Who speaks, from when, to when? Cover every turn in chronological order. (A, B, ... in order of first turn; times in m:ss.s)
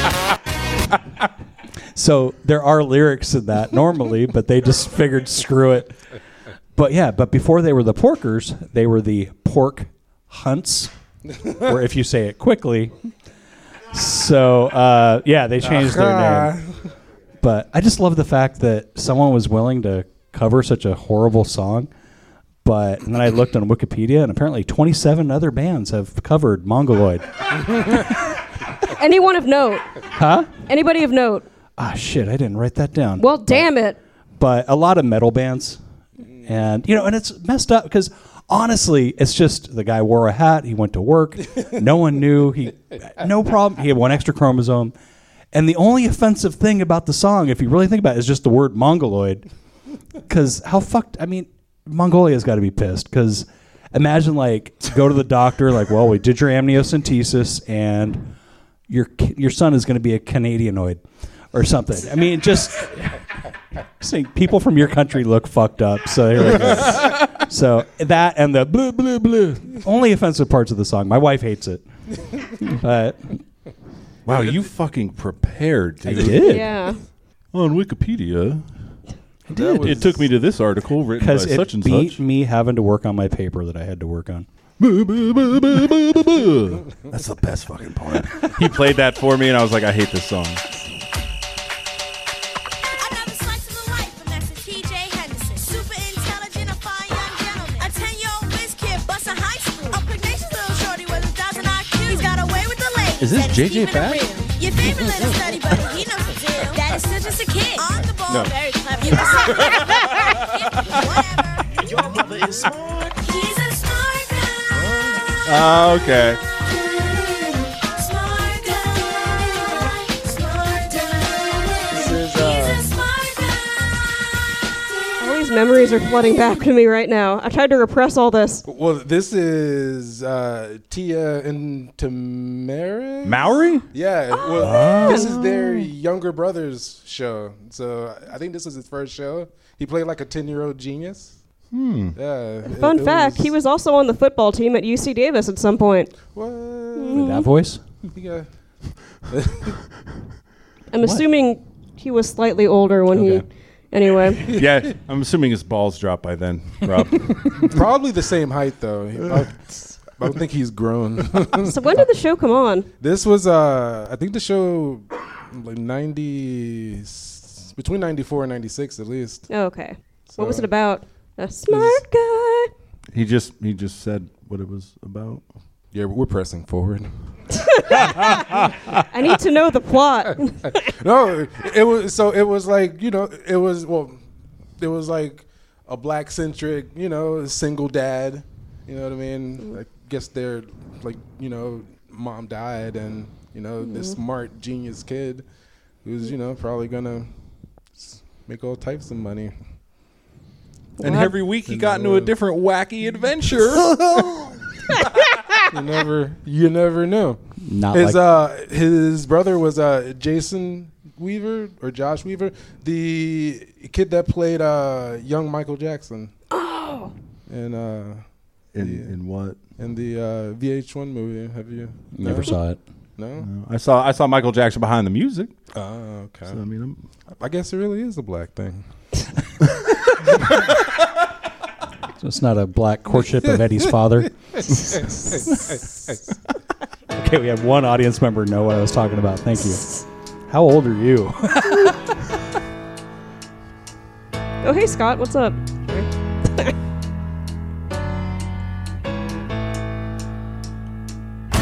0:02.0-0:06.0 A
0:06.8-0:10.9 A
0:11.6-0:13.0 A
0:13.9-0:16.6 A
0:15.6-0:16.8 B
0:17.4-0:21.9 A
0:22.6-0:28.1 A
0:28.9-0:29.9 C
0:30.2-0:30.5 A
0:30.7-0:31.5 C
0:31.8-0:33.7 A
0:33.2-0:34.0 C
0:34.4-0:35.8 A
0:36.4-0:44.9 A
0:45.5-0:49.4 A
0:50.3-0:58.3 A
0:58.9-1:01.0 A
1:01.5-1:03.2 A
1:04.0-1:11.8 A
1:12.6-1:13.4 A
1:14.3-1:16.7 D
1:16.0-1:16.7 A
1:16.4-1:17.0 C
1:17.5-1:18.6 D
1:19.5-1:20.3 B
1:19.5-1:20.0 A
1:19.8-1:22.2 D
1:21.2-1:24.5 A
1:24.8-1:30.6 D
1:33.0-1:54.7 E
1:43.2-1:44.3 D
1:54.7-1:55.4 B
1:55.4-1:56.4 D
1:57.9-2:03.6 E
2:01.9-2:02.9 B
2:05.2-2:08.6 C
2:08.7-2:21.4 B
2:13.2-2:13.9 D
2:14.5-2:15.3 C
2:14.6-2:15.9 D
2:21.7-2:22.2 D
2:22.1-2:23.5 B
2:22.7-2:26.1 C
2:26.3-2:27.4 B
2:27.0-2:27.5 C
2:27.1-2:27.8 A
2:28.0-2:28.5 B
2:29.3-2:29.8 B
2:30.9-2:34.5 C
2:33.1-2:33.4 A
2:34.5-2:37.7 D
2:37.6-2:42.1 B
2:41.6-2:42.9 C
2:43.0-2:49.5 B
2:49.5-2:52.7 C
2:50.3-2:50.7 B
2:51.7-2:52.0 B
2:53.1-2:55.4 D
2:55.9-2:57.1 B
2:57.6-3:00.9 C
3:00.8-3:04.2 B
3:04.8-3:15.4 B
3:13.9-3:14.1 C
3:16.0-3:17.3 B
3:18.0-3:19.5 B
3:21.0-3:21.3 C
3:21.0-3:24.1 D
3:21.7-3:22.3 B
3:25.7-3:27.4 B
3:27.6-3:28.2 A
3:27.9-3:36.3 B
3:36.5-3:37.1 C
3:37.5-3:38.2 B
3:38.7-3:39.6 D
3:38.8-3:39.1 B
3:39.8-3:42.6 B
3:42.2-3:42.8 A
3:43.2-3:43.5 B
3:43.4-3:45.5 D
3:45.7-3:46.6 B
3:46.5-3:47.0 D
3:47.4-3:48.8 B
3:52.2-3:54.3 A
3:55.0-3:55.6 B
3:57.1-4:00.0 A
4:00.5-4:02.1 A
4:04.6-4:06.7 C